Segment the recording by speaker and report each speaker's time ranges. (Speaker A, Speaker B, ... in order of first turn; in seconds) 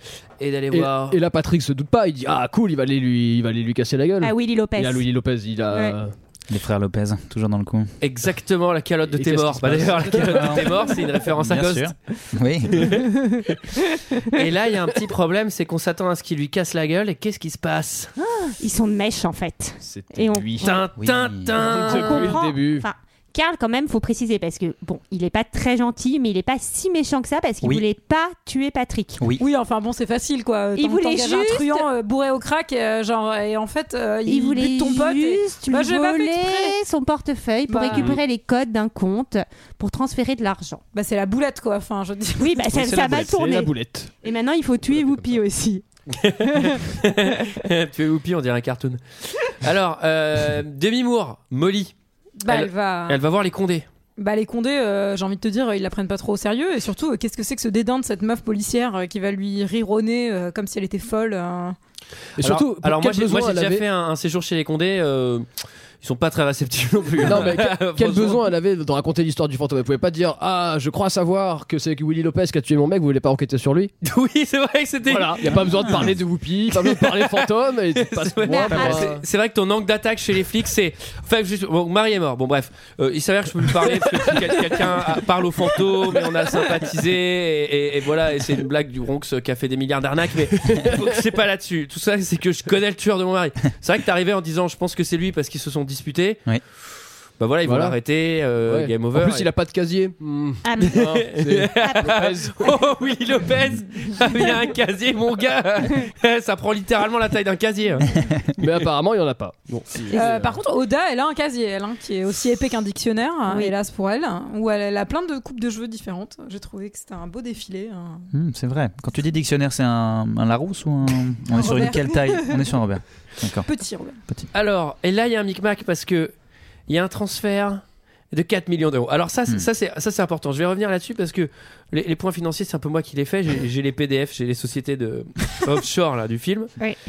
Speaker A: 0.4-1.2, 8.0-11.9, 12.8-13.1, 14.2-18.1, 20.6-22.4, 46.1-51.9, 52.5-53.9, 62.4-65.5, 66.0-68.4, 74.0-76.1, 76.7-96.5, 97.4-99.5, 100.8-108.6, 124.5-126.3, 126.9-136.7
Speaker B: 0.7-6.1, 9.1-11.0, 19.8-20.8, 21.6-22.9, 42.7-44.1, 62.4-63.9, 67.2-73.9, 75.1-79.2, 83.8-87.0, 90.7-91.0, 97.6-102.7, 108.6-110.6
Speaker C: 4.2-5.1, 5.7-6.0, 18.2-20.9, 21.6-29.2, 30.8-31.9, 34.3-40.8, 42.4-45.8, 78.5-79.1, 100.6-101.2, 101.9-102.1, 113.5-113.7
Speaker D: 6.5-7.9, 10.0-13.0, 21.0-21.5, 75.8-76.1, 118.3-123.7
Speaker E: 29.4-36.8, 37.7-38.2, 40.9-42.7, 52.4-53.2, 54.2-61.8, 110.1-118.3, 121.5-122.8, 123.7-124.2